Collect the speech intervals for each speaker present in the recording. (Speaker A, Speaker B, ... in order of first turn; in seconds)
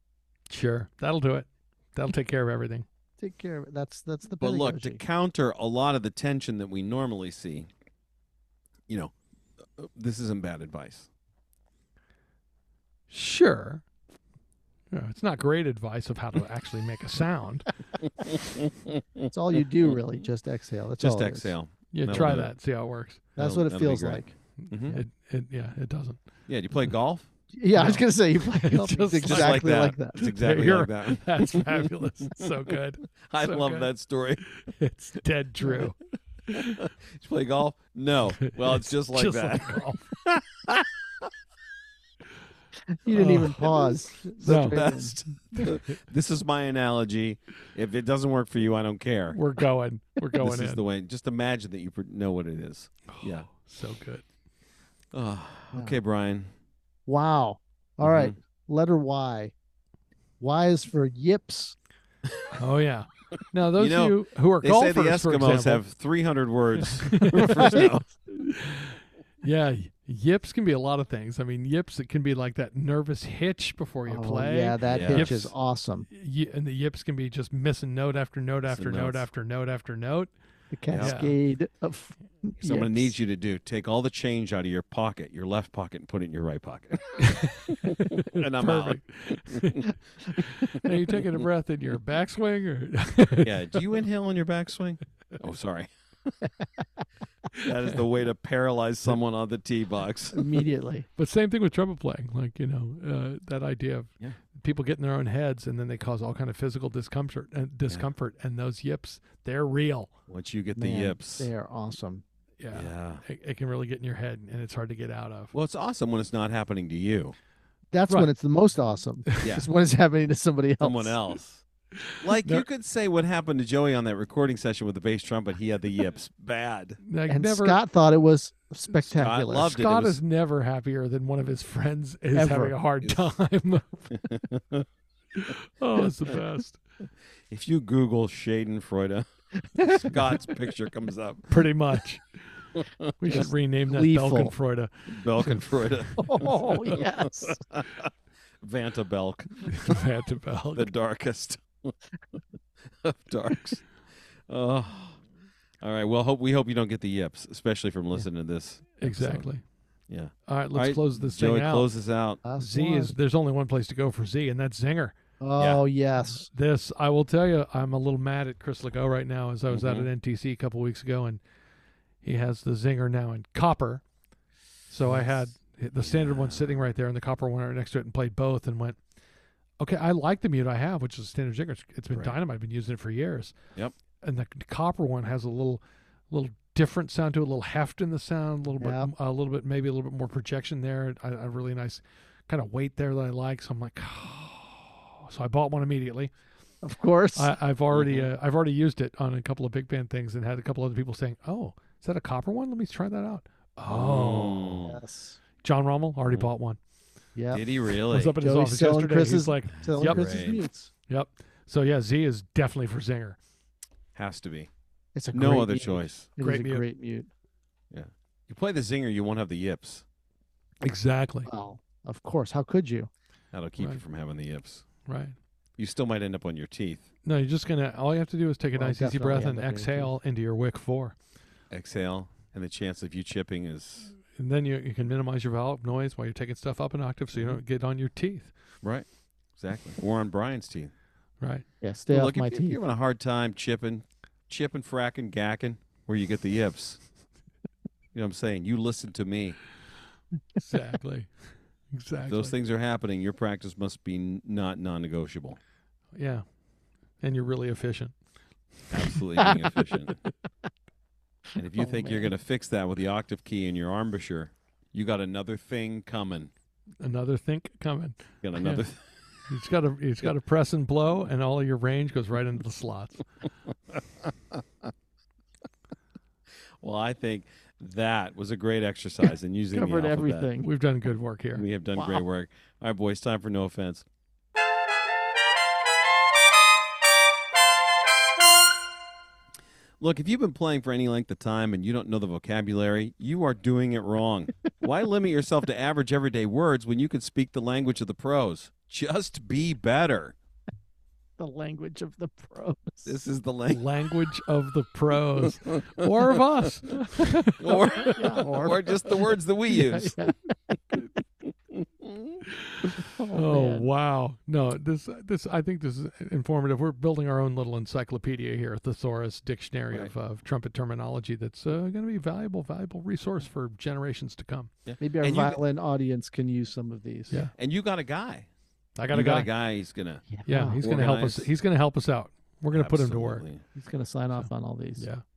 Speaker A: 0.5-2.8, 13.1-13.8, 14.9-17.7, 21.9-23.2, 24.6-26.2, 27.7-33.9, 34.4-36.0, 36.5-36.8, 38.4-40.1, 43.1-44.8, 45.5-45.9, 49.3-50.8, 53.1-54.2, 62.5-65.8, 67.0-75.5, 76.1-80.3, 81.0-81.3, 87.2-93.8, 101.2-110.1, 112.6-115.5, 122.0-122.6, 127.0-127.8, 129.5-134.2, 135.3-136.8, 141.5-145.7, 149.7-150.9, 159.0-159.6, 160.5-161.9, 162.6-165.2, 166.3-171.4, 172.2-174.0, 174.9-179.0, 179.8-183.5, 184.2-196.3, 197.3-204.8, 205.6-206.8, 208.1-210.3, 211.1-213.4, 216.4-216.8, 220.8-221.5, 225.0-225.3, 227.2-231.2, 234.3-238.5, 250.6-251.3, 251.9-252.5, 256.1-256.4, 257.2-258.1, 267.0-268.8, 269.5-273.2, 280.6-281.6, 303.7-308.4, 312.4-324.7, 329.0-329.5, 330.4-333.4, 334.3-335.2
Speaker B: 3.2-5.0, 19.3-21.5, 23.4-24.3, 27.5-30.2, 42.9-45.1, 55.7-56.0, 57.0-59.5, 60.4-61.7, 67.6-67.8, 74.1-76.1, 80.7-83.1, 100.3-101.1, 110.8-112.2, 117.9-121.2, 127.3-129.7, 132.3-132.8, 139.8-140.1, 143.3-144.5, 146.2-147.6, 162.4-163.1, 165.4-166.5, 188.8-189.1, 196.8-197.5, 204.8-205.4, 207.3-207.6, 208.4-210.9, 215.1-217.3, 221.5-223.1, 228.8-230.1, 241.8-242.8, 259.4-259.8, 261.8-262.3, 279.7-280.7, 281.9-282.2, 301.4-303.2, 308.0-310.8, 313.0-313.9, 325.0-327.4, 330.3-330.8, 333.7-335.1
Speaker C: 4.4-7.7, 9.8-11.1, 18.0-19.2, 21.0-22.5, 23.4-25.0, 26.5-27.3, 29.2-34.4, 36.5-41.3, 44.4-49.4, 50.4-53.5, 55.1-56.5, 58.0-58.4, 63.8-68.1, 74.9-75.3, 78.7-79.3, 80.9-81.2, 82.6-89.8, 90.4-91.4, 93.4-96.3, 97.5-100.6, 110.3-111.5, 112.7-113.2, 115.5-117.3, 120.8-121.6, 122.2-127.0, 129.0-130.2, 134.1-134.8, 137.5-141.6, 142.8-143.1, 145.1-150.0, 150.7-151.9, 152.9-153.8, 154.5-155.2, 155.8-159.4, 160.1-162.4, 165.6-165.8, 169.7-170.1, 176.0-176.8, 197.9-198.3, 203.9-205.0, 207.5-208.4, 210.0-210.6, 214.1-214.7, 215.3-216.3, 217.9-220.0, 223.5-224.8, 225.8-227.1, 231.7-234.1, 238.8-240.9, 242.1-247.0, 248.1-249.6, 252.3-255.6, 258.9-260.2, 261.6-266.5, 268.4-269.0, 274.2-274.6, 276.8-280.5, 281.5-284.1, 290.0-300.4, 303.1-303.9, 307.6-310.2, 311.7-312.4, 324.8-325.6, 327.5-328.5, 329.1-330.2, 330.8-331.5, 332.7-333.6